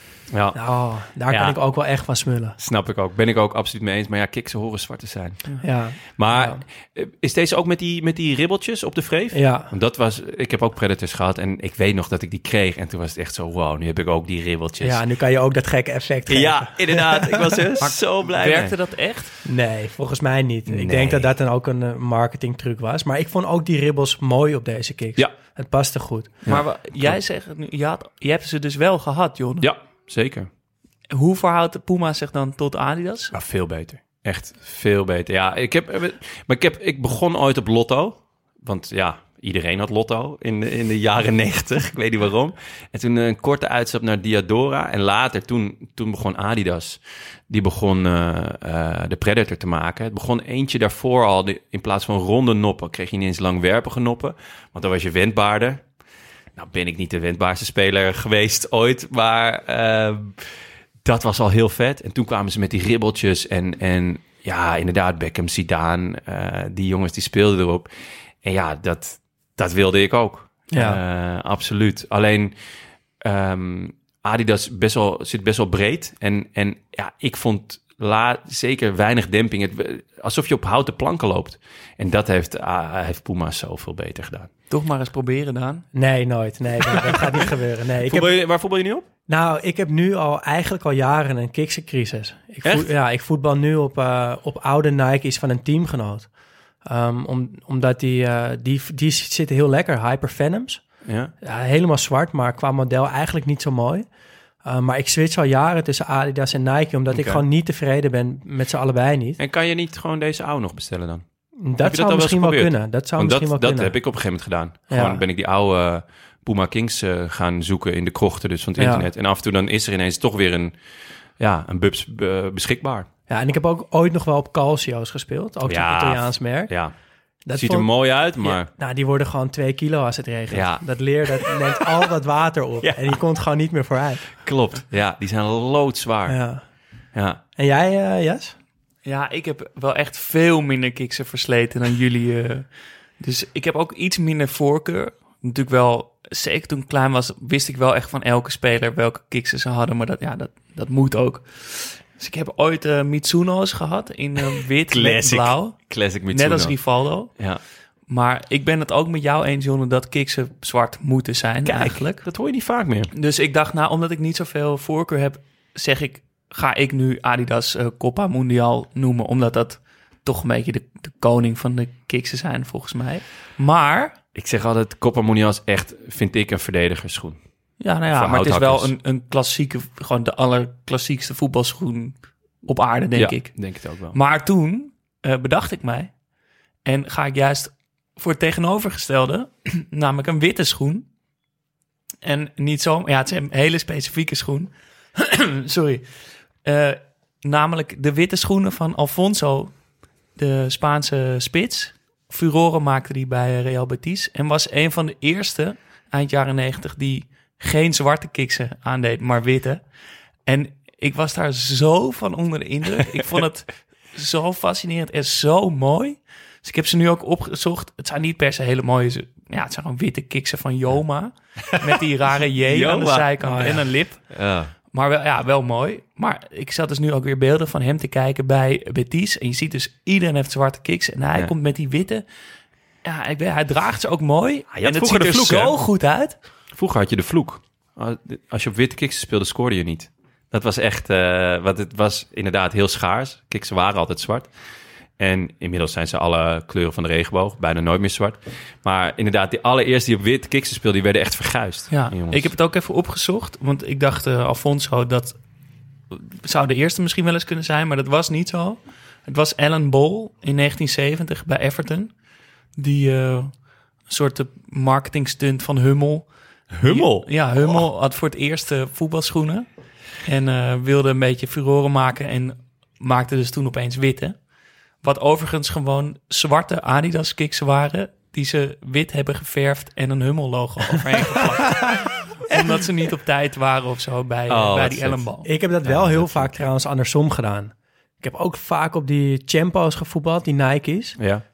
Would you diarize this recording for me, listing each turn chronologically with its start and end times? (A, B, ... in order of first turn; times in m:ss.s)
0:00.3-0:00.6 A
0:00.5-0:02.6 B
0:01.3-0:01.6 A
0:02.6-0:05.5 A
0:05.6-0:06.6 B
0:06.2-0:15.0 A
0:09.3-0:09.7 B
0:14.8-0:17.6 B
0:16.3-0:18.7 A
0:17.8-0:19.3 C
0:19.4-0:26.3 B
0:20.7-0:21.3 A
0:26.4-0:27.2 A
0:26.4-0:29.7 C
0:29.6-0:30.5 A
0:31.1-0:33.3 C
0:33.3-0:55.8 A
0:56.6-1:00.4 A
1:01.0-1:07.9 A
1:08.4-1:12.5 A
1:10.7-1:11.0 B
1:13.2-1:24.5 A
1:24.7-1:25.9 C
1:25.9-1:28.4 B
1:27.0-1:27.4 A
1:28.0-1:29.0 A
1:29.3-1:36.3 B
1:32.6-1:32.9 A
1:36.8-1:40.8 B
1:41.0-1:41.3 A
1:41.4-1:44.0 B
1:44.6-1:49.4 B
1:47.1-1:47.4 A
1:49.4-1:51.2 A
1:51.6-1:54.0 B
1:51.8-2:00.7 A
1:54.9-1:55.2 B
1:58.8-1:59.1 B
2:01.4-2:03.1 A
2:03.3-2:06.7 B
2:05.6-2:06.9 A
2:07.4-2:14.3 B
2:07.5-2:08.7 A
2:10.5-2:10.8 A
2:12.8-2:13.1 A
2:14.4-2:16.4 A
2:16.3-2:16.6 B
2:17.1-2:17.4 A
2:17.6-2:18.5 B
2:19.0-2:37.3 C
2:34.9-2:36.8 A
2:38.1-2:42.2 C
2:41.6-2:43.1 A
2:43.1-2:54.2 C
2:54.3-2:57.4 A
2:57.8-3:06.1 C
2:58.1-2:58.9 A
3:03.1-3:04.2 A
3:06.8-3:11.0 C
3:12.2-3:16.1 C
3:16.6-3:19.8 C
3:20.4-3:29.8 C
3:30.4-3:44.3 C
3:42.6-3:43.3 A
3:43.4-3:43.8 B
3:44.3-3:44.7 A
3:44.9-3:52.2 C
3:53.0-3:56.4 C
3:54.7-3:55.8 A
3:56.7-4:04.5 A
4:05.2-4:12.5 A
4:11.9-4:15.4 C
4:16.1-4:22.1 C
4:22.8-4:29.6 C
4:26.7-4:27.8 A
4:30.2-4:34.4 C
4:35.0-4:45.5 C
4:44.5-4:45.2 A
4:45.4-4:51.2 B
4:45.8-4:46.5 A
4:51.2-4:51.4 A